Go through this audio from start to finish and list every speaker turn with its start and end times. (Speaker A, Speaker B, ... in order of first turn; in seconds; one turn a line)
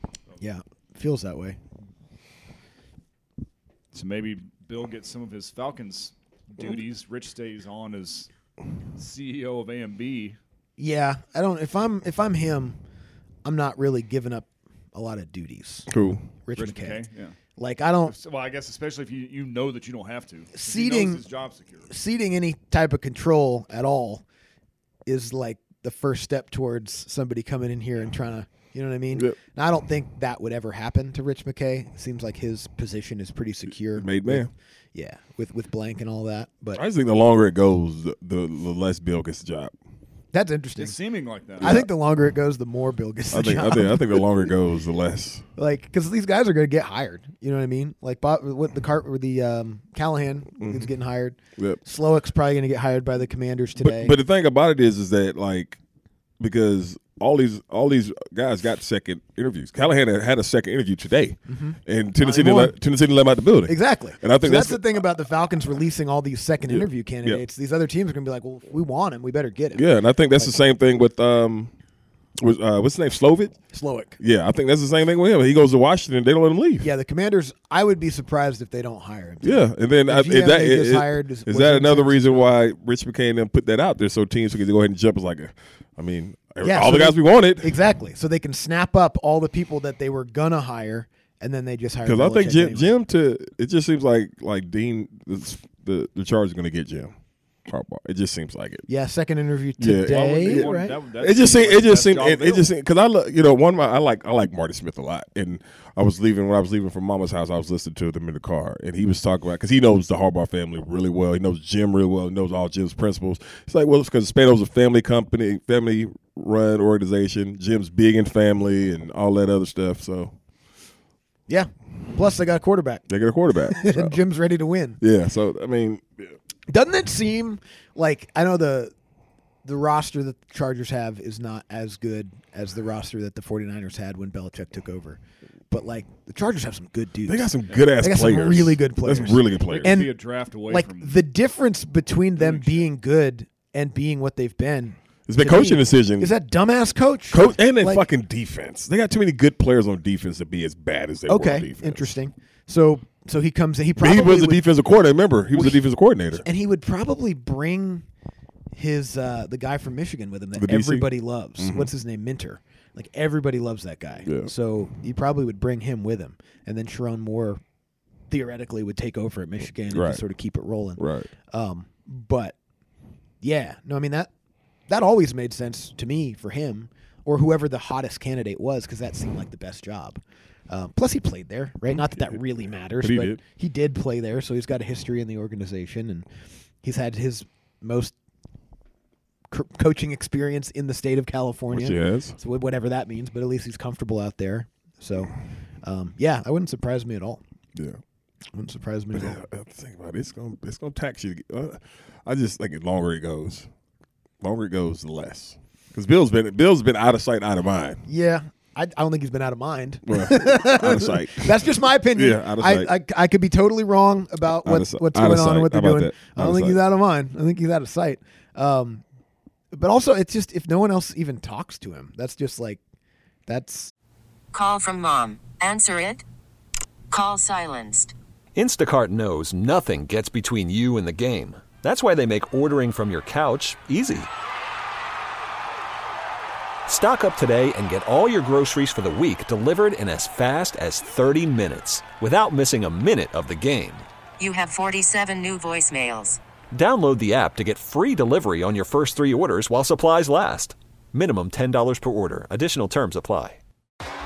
Speaker A: 0.4-1.6
Speaker B: 3.9-8.3
Speaker B: 8.9-10.4
Speaker A: 10.8-12.8
Speaker A: 13.4-15.9
Speaker C: 15.9-16.4
Speaker A: 16.4-17.0
Speaker B: 16.5-17.4
Speaker A: 17.6-18.2
Speaker B: 18.0-21.9
Speaker A: 20.5-21.2
Speaker A: 21.9-24.2
Speaker A: 25.1-36.8
Speaker C: 29.1-29.4
Speaker C: 33.8-34.5
Speaker C: 36.7-39.7
Speaker A: 40.3-40.9
Speaker B: 40.8-41.8
Speaker A: 41.6-44.2
Speaker C: 41.6-41.9
Speaker C: 43.3-45.4
Speaker A: 45.5-54.2
Speaker C: 50.6-50.9
Speaker C: 51.6-51.8
Speaker C: 53.8-55.8
Speaker C: 56.4-65.0
Speaker A: 61.5-62.7
Speaker A: 63.7-70.6
Speaker C: 66.7-67.4
Speaker C: 69.7-71.7
Speaker C: 72.4-73.6
Speaker A: 73.7-74.2
Speaker C: 74.2-76.9
Speaker A: 76.8-82.5
Speaker C: 79.4-87.7
Speaker A: 86.6-93.0
Speaker C: 92.0-97.2
Speaker C: 97.7-98.9
Speaker A: 98.9-101.0
Speaker C: 99.8-120.3
Speaker B: 100.1-102.7
Speaker A: 121.5-123.0
Speaker C: 123.1-124.2
Speaker A: 123.6-125.0
Speaker C: 125.0-126.3
Speaker A: 126.7-128.9
Speaker A: 129.7-135.2
Speaker A: 135.7-148.1
Speaker C: 137.2-140.0
Speaker B: 139.6-141.2
Speaker B: 142.4-142.9
Speaker C: 145.3-146.3
Speaker C: 147.3-152.1
Speaker A: 151.3-154.6
Speaker C: 154.0-156.5
Speaker A: 155.5-155.8
Speaker A: 156.4-158.0
Speaker A: 158.7-167.6
Speaker C: 160.5-161.9
Speaker C: 164.2-164.5
Speaker A: 168.3-172.5
Speaker C: 169.9-170.2
Speaker C: 171.0-171.3
Speaker A: 173.4-174.3
Speaker A: 174.9-186.2
Speaker C: 182.0-182.4
Speaker C: 182.9-183.4
Speaker A: 186.8-188.2
Speaker A: 189.5-197.4
Speaker C: 191.7-192.4
Speaker A: 198.5-199.4
Speaker C: 199.1-203.7
Speaker C: 204.4-208.0
Speaker A: 208.1-219.0
Speaker C: 210.1-212.9
Speaker C: 214.5-216.8
Speaker A: 219.7-222.8
Speaker A: 223.5-223.9
Speaker D: 224.5-226.2
Speaker D: 227.1-228.1
Speaker E: 228.6-234.3
Speaker E: 236.9-244.1
Speaker D: 244.4-246.4
Speaker E: 246.7-253.6